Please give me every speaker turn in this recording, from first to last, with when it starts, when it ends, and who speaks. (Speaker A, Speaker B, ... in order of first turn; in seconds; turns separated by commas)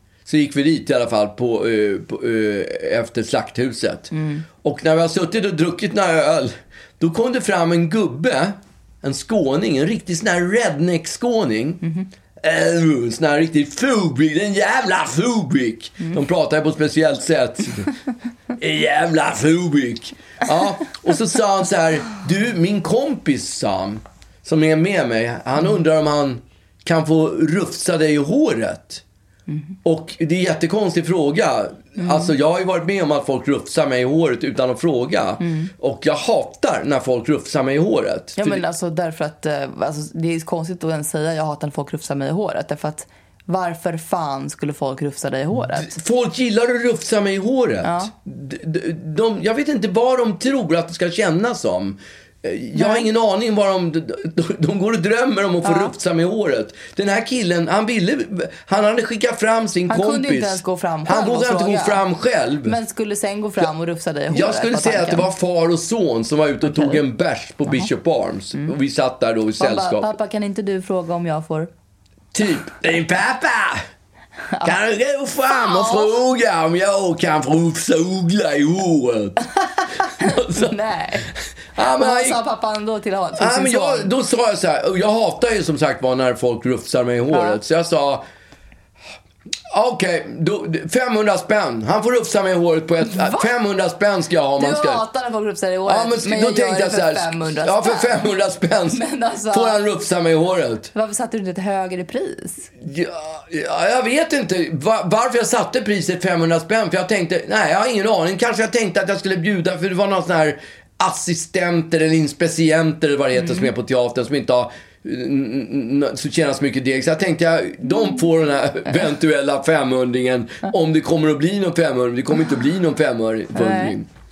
Speaker A: 0.3-4.1, Speaker B: 4.1-4.5, Speaker A: 4.6-11.8, Speaker A: 12.4-18.0, Speaker A: 18.6-29.0, Speaker A: 29.8-38.6, Speaker B: 32.0-32.3, Speaker B: 35.4-35.7, Speaker B: 38.4-46.0, Speaker A: 45.7-62.8, Speaker B: 47.8-48.1, Speaker B: 52.8-53.1, Speaker B: 55.6-55.9, Speaker B: 59.9-62.0, Speaker B: 62.6-65.3, Speaker A: 64.3-70.1, Speaker B: 66.6-67.0, Speaker B: 69.6-71.7, Speaker A: 72.3-73.8, Speaker B: 74.5-74.8, Speaker A: 74.6-79.4, Speaker B: 75.5-76.2, Speaker B: 79.5-84.1, Speaker A: 80.1-80.8, Speaker A: 81.3-82.4, Speaker A: 83.4-88.2, Speaker B: 87.3-87.6, Speaker A: 89.7-95.0, Speaker B: 93.0-93.5, Speaker B: 94.6-98.3, Speaker A: 95.9-100.9, Speaker B: 98.9-99.8, Speaker B: 100.9-102.7, Speaker A: 102.8-124.1, Speaker B: 123.5-124.0